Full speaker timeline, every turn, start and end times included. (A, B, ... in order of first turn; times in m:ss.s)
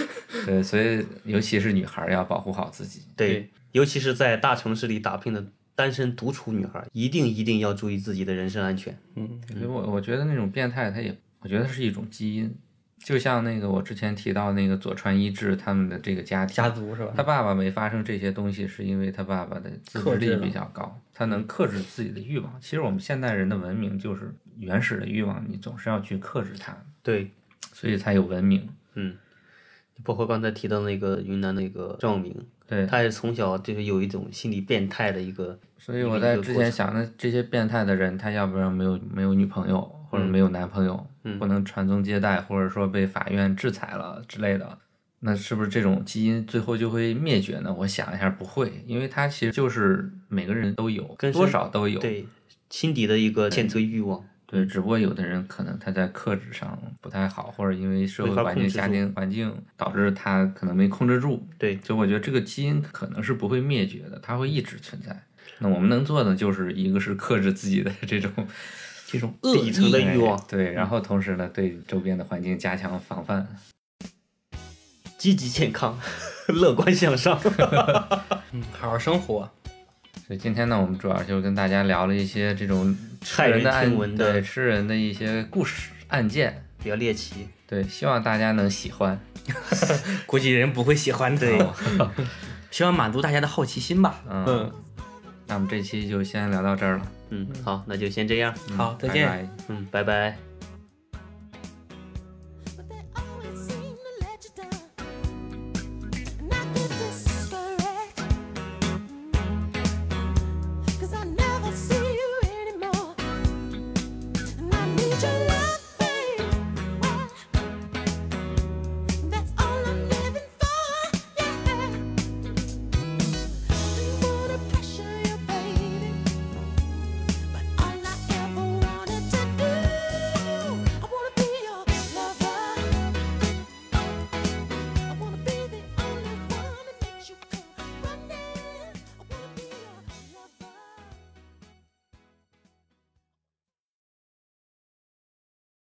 0:00.4-0:03.2 A
0:03.2-0:09.0 B
0:09.2-0:09.5 C
0:09.5-0:26.9 A
0:16.5-0:17.2 C
0:19.9-0:20.6 C
0:27.0-0:27.3 B
0:27.7-0:28.8 A
0:30.0-0:36.8 B
0:32.7-0:33.0 A
0:35.8-0:52.1 A
0:51.2-0:54.7 B
0:53.5-0:53.8 A
0:54.5-1:08.9 A
0:58.2-0:59.0 B
1:09.1-1:10.1 C
1:09.5-1:10.8 B
1:09.9-1:13.6 A
1:15.2-1:18.4 B
1:18.5-1:19.5 C
1:20.3-1:26.7 A
1:23.3-1:24.4 B
1:26.8-1:27.5 B
1:27.7-1:29.2 A
1:29.5-1:34.7 C
1:31.4-1:32.3 A
1:34.2-1:34.7 A
1:35.5-1:37.6 A
1:37.3-1:38.6 B
1:38.7-1:39.6 A
1:38.7-1:39.4 C
1:39.7-1:40.4 B
1:42.7-1:44.9 D
1:46.4-1:48.3 D
1:51.0-1:53.2 D
1:54.6-1:57.5 D
1:59.1-2:02.5 D
2:03.8-2:06.2 D
2:07.5-2:13.2 D
2:15.1-2:21.3 D